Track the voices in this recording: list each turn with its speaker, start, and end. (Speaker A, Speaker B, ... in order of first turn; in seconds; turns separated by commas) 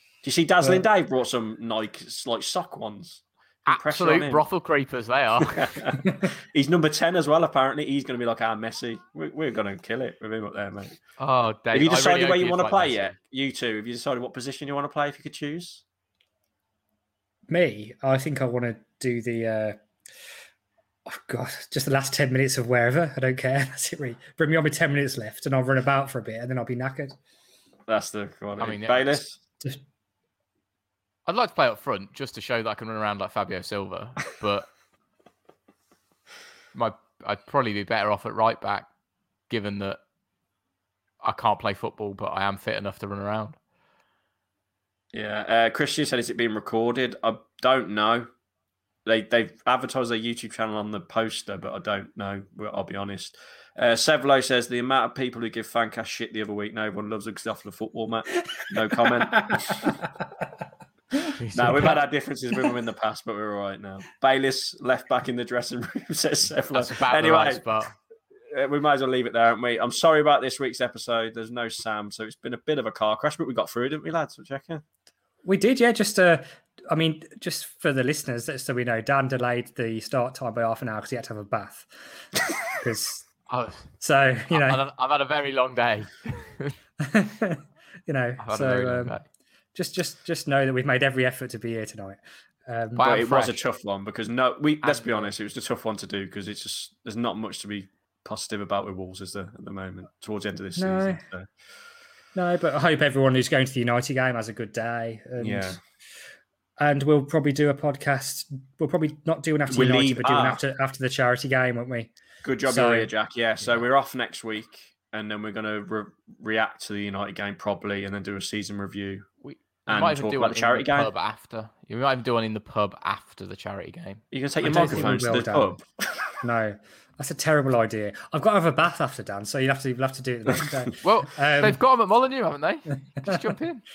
Speaker A: 0.2-4.4, Speaker B: 3.7-5.5, Speaker A: 5.4-11.0, Speaker B: 11.2-13.1, Speaker A: 11.7-15.8, Speaker C: 17.5-19.8, Speaker C: 21.1-27.2, Speaker A: 27.9-29.4, Speaker B: 28.6-29.2, Speaker B: 31.2-34.7, Speaker B: 36.7-38.9, Speaker B: 39.5-40.0, Speaker B: 41.2-43.6, Speaker A: 45.1-48.3, Speaker A: 49.0-60.0, Speaker C: 59.4-59.9, Speaker B: 61.4-62.0, Speaker A: 61.5-67.6, Speaker B: 66.7-67.9, Speaker A: 68.5-74.8, Speaker C: 75.4-81.9, Speaker C: 82.8-83.3, Speaker B: 83.5-83.9, Speaker C: 84.0-84.8, Speaker B: 84.5-86.7, Speaker C: 87.0-89.2, Speaker B: 88.4-89.2, Speaker C: 89.7-93.0, Speaker B: 93.0-93.6, Speaker A: 93.0-101.5, Speaker B: 94.8-95.3, Speaker C: 100.8-101.2, Speaker C: 102.3-105.8, Speaker A: 105.4-105.8, Speaker C: 106.8-113.1, Speaker A: 109.7-110.6, Speaker A: 112.4-119.3, Speaker B: 113.6-113.9, Speaker B: 119.4-124.2, Speaker A: 119.9-121.1, Speaker A: 124.3-126.4, Speaker C: 124.6-125.8, Speaker C: 126.4-131.8, Speaker B: 131.0-133.8